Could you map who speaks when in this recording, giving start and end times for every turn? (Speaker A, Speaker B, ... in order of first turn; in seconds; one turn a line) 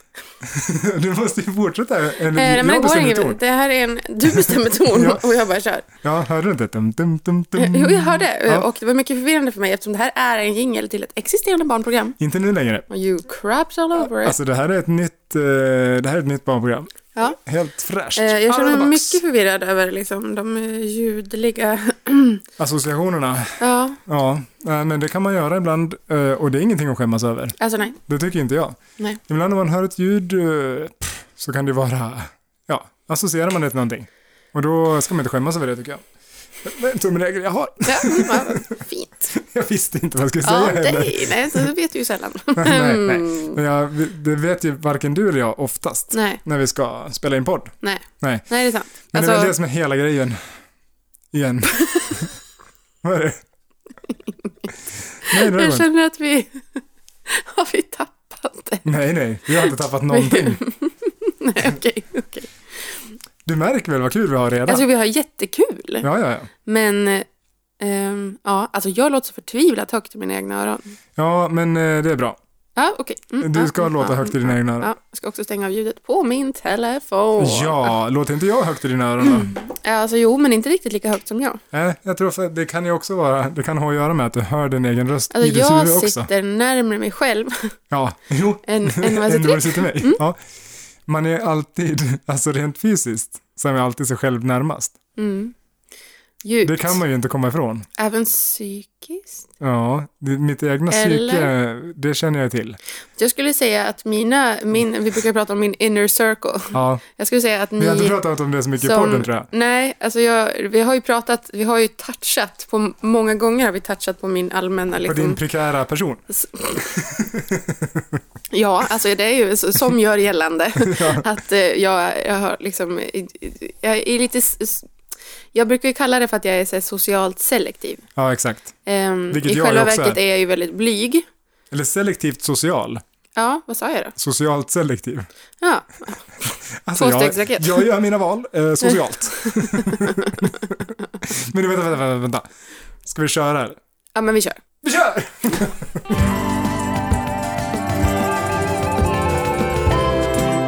Speaker A: 0.4-3.4
Speaker B: 2.3-5.9
Speaker A: 4.3-5.2
Speaker A: 6.0-8.7
Speaker B: 7.6-12.2
Speaker A: 12.2-12.9
Speaker B: 12.9-14.4
Speaker A: 14.0-19.2
Speaker B: 18.2-22.4
Speaker A: 22.6-36.0
Speaker B: 23.6-24.0
Speaker B: 27.6-28.0
Speaker A: 36.6-38.7
Speaker B: 37.8-39.3
Speaker A: 39.3-41.7
Speaker B: 40.4-43.6
Speaker A: 42.6-48.5
Speaker B: 46.1-46.4
Speaker B: 47.8-49.5
Speaker A: 49.1-50.4
Speaker A: 51.3-52.3
Speaker B: 51.7-52.2
Speaker A: 53.0-53.4
Speaker A: 55.2-55.9
Speaker B: 55.2-58.9
Speaker A: 58.9-60.6
Speaker B: 59.6-63.0
Speaker A: 63.5-64.8
Speaker B: 64.7-66.1
Speaker A: 66.0-66.5
Speaker B: 66.7-67.3
Speaker B: 67.8-71.0
Speaker A: 71.2-72.4
Speaker B: 72.8-77.9
Speaker A: 73.4-74.9
Speaker A: 77.4-79.5
Speaker B: 79.2-81.6
Speaker A: 81.7-86.3
Speaker B: 85.3-87.7
Speaker A: 87.9-90.4
Speaker B: 88.6-90.2
Speaker A: 91.1-95.0
Speaker B: 95.2-95.5
Speaker B: 96.4-97.0
Speaker A: 96.6-97.9
Speaker B: 98.0-99.5
Speaker A: 99.6-102.8
Speaker B: 100.9-101.5
Speaker B: 103.2-108.2
Speaker A: 106.7-107.0
Speaker A: 107.8-109.5
Speaker B: 108.8-115.4
Speaker A: 115.0-116.2
Speaker B: 116.3-117.0
Speaker A: 116.8-118.2
Speaker B: 118.5-124.9
Speaker A: 120.8-121.2
Speaker B: 125.5-128.1
Speaker A: 128.2-128.8
Speaker B: 128.9-131.2
Speaker A: 129.3-130.2
Speaker A: 131.7-133.0
Speaker B: 133.4-134.2
Speaker A: 134.2-135.3
Speaker B: 135.6-137.9
Speaker A: 136.8-142.4
Speaker B: 138.8-140.5
Speaker A: 143.1-143.8
Speaker B: 144.2-144.6
Speaker A: 144.8-146.2